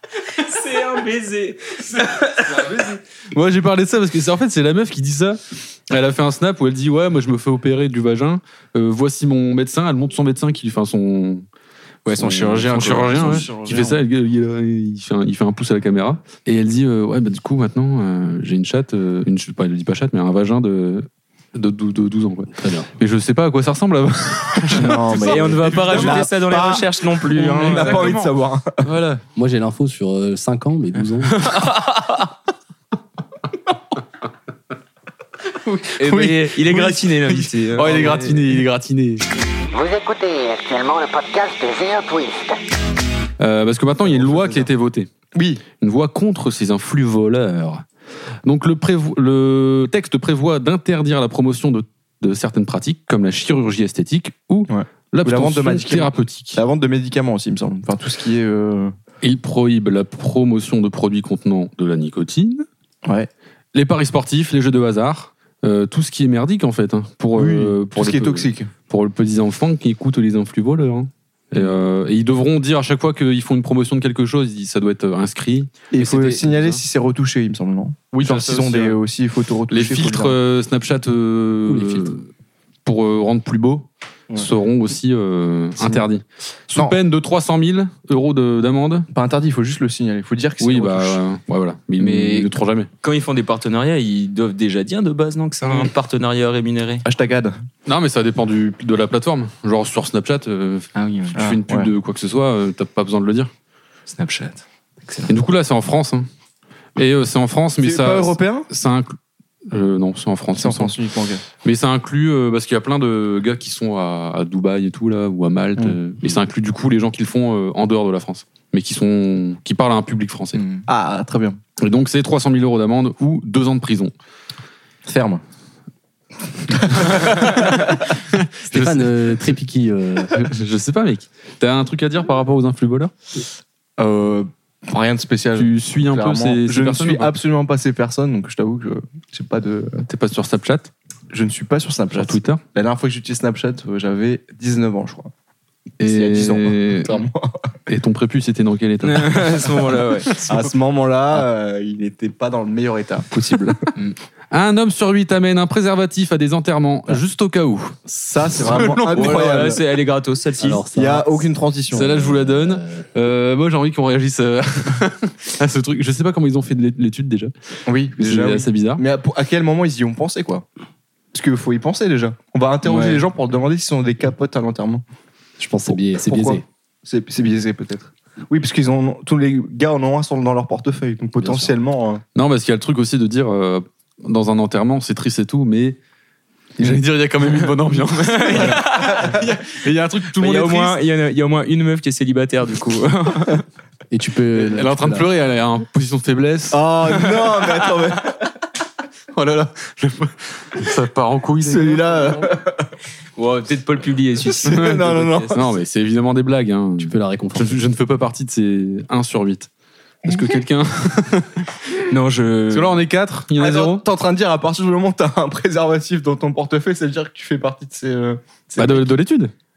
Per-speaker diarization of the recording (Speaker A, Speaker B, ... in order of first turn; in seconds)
Speaker A: 0.3-2.8, 12.1-13.9, 24.9-28.2, 31.3-32.1, 36.0-38.5, 92.0-97.0, 100.9-101.5, 104.1-105.4, 120.5-120.8, 149.0-150.4, 159.1-160.8, 172.8-173.2, 188.2-189.2, 190.3-193.6, 203.4-205.6, 212.1-213.0
Speaker B: 2.5-11.4, 12.1-26.3, 27.4-28.2, 28.8-29.2, 35.5-39.2, 43.4-45.1, 45.8-47.9, 48.4-56.6, 59.2-62.7, 63.7-76.8, 78.1-79.0, 79.7-82.3, 82.8-89.1, 90.6-92.9, 97.9-103.5, 105.3-106.3, 107.0-109.2, 109.7-110.9, 111.6-120.6, 121.8-124.1, 126.9-129.2, 130.3-133.1, 135.5-137.3, 140.1-140.9, 142.1-142.6, 146.0-147.2, 147.9-149.7, 154.5-159.7, 161.9-167.5, 168.2-169.0, 182.3-186.0, 186.8-191.0, 194.5-196.9, 199.3-202.5, 204.7-209.7, 210.2-211.7, 212.7-214.1, 218.8-219.5
Speaker C: 12.9-13.9, 24.6-28.9, 44.0-44.7, 45.3-45.6, 54.7-58.9, 63.0-63.3, 67.4-68.7, 75.9-80.4, 89.1-91.2, 97.0-97.5, 101.3-101.9, 107.8-108.7, 110.5-111.4, 120.9-121.6, 125.1-125.4, 134.0-140.0, 141.3-145.3, 146.1-147.6, 150.4-153.9, 158.1-159.8, 160.9-162.1, 167.9-170.6, 171.3-175.0, 176.2-182.2, 188.5-189.4, 196.7-198.3, 201.6-202.7, 204.6-205.6, 213.6-219.1
Speaker D: 22.6-22.9, 29.4-31.4, 81.7-82.1, 128.7-130.3, 160.6-161.4, 162.1-163.1, 175.6-176.6, 181.4-181.7, 194.1-195.3, 207.0-207.8
Speaker E: 39.7-42.6